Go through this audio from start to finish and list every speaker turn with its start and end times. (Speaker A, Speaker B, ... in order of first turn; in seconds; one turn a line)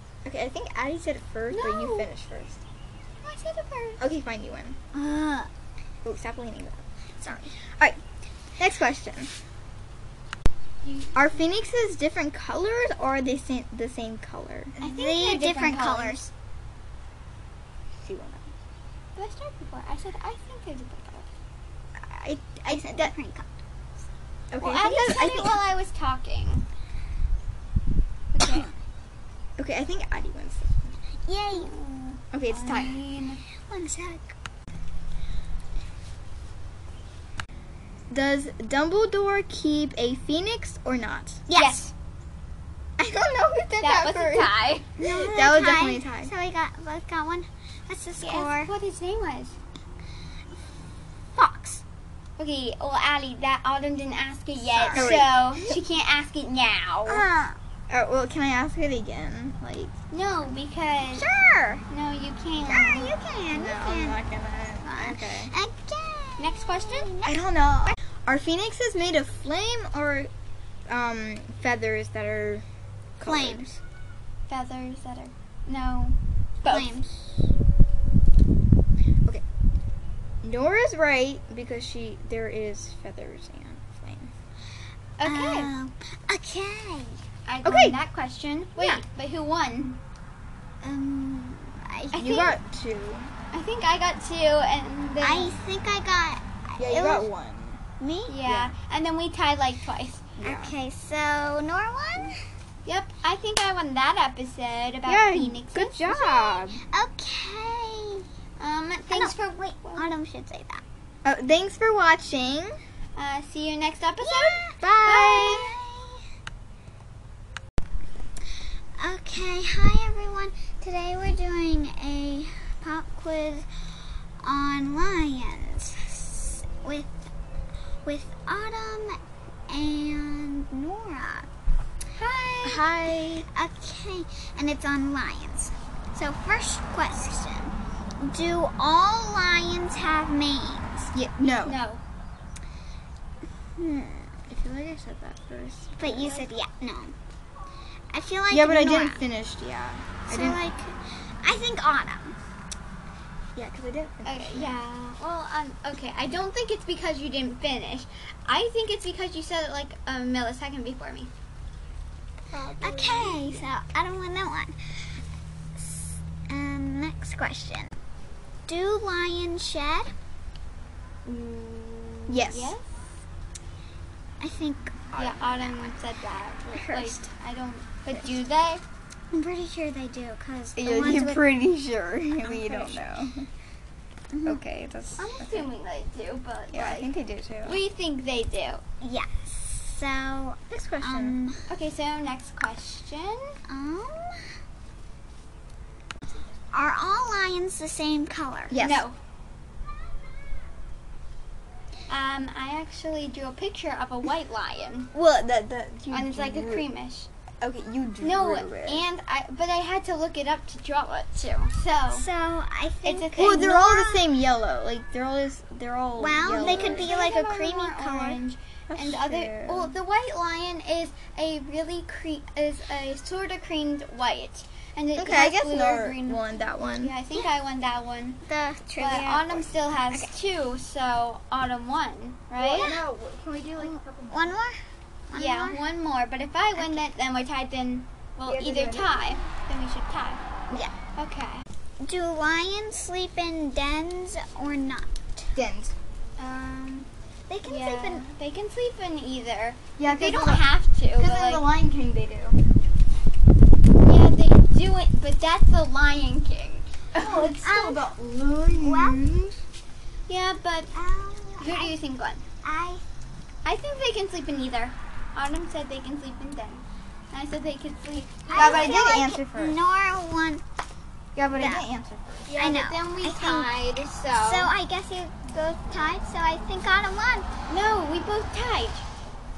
Speaker A: 0.2-2.6
Speaker B: 1.5-2.1
Speaker B: 3.2-4.0
Speaker A: 4.0-4.8
Speaker C: 4.9-5.5
Speaker A: 6.0-8.0
Speaker C: 7.2-7.5
Speaker A: 8.6-9.3
Speaker B: 10.8-11.1
Speaker A: 11.1-14.7
Speaker B: 14.8-16.2
Speaker C: 14.8-16.3
Speaker A: 18.0-18.4
Speaker B: 19.1-21.3
Speaker A: 22.0-23.1
Speaker C: 22.7-23.5
Speaker A: 24.5-25.5
Speaker B: 24.6-26.6
Speaker C: 25.1-25.3
Speaker B: 28.3-28.7
Speaker C: 28.4-28.7
Speaker A: 29.6-30.9
Speaker C: 31.3-31.8
Speaker B: 31.5-33.4
Speaker A: 32.3-32.9
Speaker C: 33.7-34.3
Speaker A: 38.1-41.4
Speaker C: 41.5-41.9
Speaker B: 41.5-41.9
Speaker A: 43.0-46.3
Speaker B: 43.8-45.0
Speaker C: 45.0-48.7
Speaker B: 48.2-49.5
Speaker C: 51.4-51.8
Speaker B: 52.4-57.2
Speaker C: 54.7-55.2
Speaker A: 54.9-55.3
Speaker C: 57.1-57.6
Speaker A: 57.9-59.9
Speaker B: 60.1-61.3
Speaker C: 61.1-61.8
Speaker B: 61.9-63.1
Speaker C: 62.6-64.2
Speaker A: 63.5-65.5
Speaker C: 64.8-67.3
Speaker B: 66.4-67.1
Speaker A: 67.2-70.3
Speaker A: 70.9-72.6
Speaker A: 73.2-73.8
Speaker C: 73.2-73.7
Speaker B: 74.5-76.9
Speaker C: 76.7-77.3
Speaker A: 80.4-84.3
Speaker B: 85.2-85.7
Speaker C: 85.2-87.2
Speaker B: 87.5-90.0
Speaker A: 87.6-88.0
Speaker C: 90.8-92.2
Speaker B: 92.1-92.5
Speaker A: 92.2-93.3
Speaker B: 93.5-95.5
Speaker C: 95.2-97.3
Speaker A: 96.8-97.8
Speaker C: 98.0-98.5
Speaker B: 98.3-100.3
Speaker A: 98.5-98.7
Speaker A: 100.4-100.7
Speaker C: 100.4-102.4
Speaker B: 102.8-106.1
Speaker A: 105.0-106.8
Speaker C: 106.1-108.2
Speaker B: 108.6-110.1
Speaker C: 109.1-110.8
Speaker A: 111.2-112.8
Speaker B: 113.1-115.7
Speaker C: 114.2-116.2
Speaker A: 114.8-115.7
Speaker C: 119.0-123.7
Speaker C: 124.4-127.1
Speaker C: 128.0-131.5
Speaker B: 132.2-132.8
Speaker A: 132.6-133.4
Speaker C: 133.5-141.1
Speaker A: 141.1-141.8
Speaker B: 141.6-142.0
Speaker C: 143.8-144.3
Speaker A: 144.5-146.4
Speaker C: 146.0-147.1
Speaker C: 148.1-149.2
Speaker A: 148.5-150.6
Speaker C: 150.3-152.3
Speaker A: 153.6-154.8
Speaker B: 154.2-161.3
Speaker A: 162.5-163.6
Speaker C: 162.8-164.8
Speaker C: 165.8-167.9
Speaker C: 168.7-170.1
Speaker B: 171.2-172.9
Speaker A: 172.3-172.7
Speaker C: 174.4-175.9
Speaker B: 175.2-178.8
Speaker C: 176.7-177.2
Speaker C: 179.3-181.4
Speaker A: 180.8-183.5
Speaker C: 184.3-184.6
Speaker A: 184.4-185.7
Speaker B: 185.2-187.1
Speaker A: 186.7-187.8
Speaker B: 187.6-188.8
Speaker C: 189.0-191.6
Speaker A: 190.7-191.4
Speaker B: 191.7-193.6
Speaker C: 193.7-194.5
Speaker C: 196.7-198.8
Speaker A: 198.7-199.0
Speaker B: 198.8-199.2
Speaker B: 202.1-205.1
Speaker A: 205.1-206.9
Speaker B: 206.1-207.3
Speaker A: 207.6-209.0
Speaker B: 208.2-212.3
Speaker C: 212.1-214.2
Speaker B: 213.0-213.7
Speaker A: 213.4-217.2
Speaker C: 216.2-218.4
Speaker B: 216.5-226.4
Speaker A: 218.9-219.9
Speaker A: 225.2-227.1
Speaker B: 227.0-228.4
Speaker C: 228.4-229.7
Speaker B: 229.0-233.0
Speaker A: 232.6-234.6
Speaker C: 232.7-233.0
Speaker C: 234.3-234.8
Speaker C: 235.3-235.8
Speaker B: 235.3-240.4
Speaker C: 236.8-237.0
Speaker A: 238.4-239.2
Speaker B: 241.2-241.6
Speaker C: 242.0-245.5
Speaker A: 245.5-245.9
Speaker B: 246.5-247.0
Speaker C: 247.5-248.3
Speaker B: 247.6-251.6
Speaker A: 250.0-252.6
Speaker B: 254.0-257.5
Speaker A: 257.1-259.6
Speaker C: 257.3-258.1
Speaker C: 258.7-259.2
Speaker B: 260.3-260.9
Speaker C: 260.9-261.9
Speaker B: 261.6-262.4
Speaker C: 262.6-263.0
Speaker B: 263.6-269.1
Speaker C: 268.5-270.6
Speaker A: 268.5-269.8
Speaker A: 271.4-272.5
Speaker C: 271.5-271.8
Speaker B: 272.5-274.7
Speaker C: 272.6-273.7
Speaker C: 274.3-277.5
Speaker B: 277.7-279.0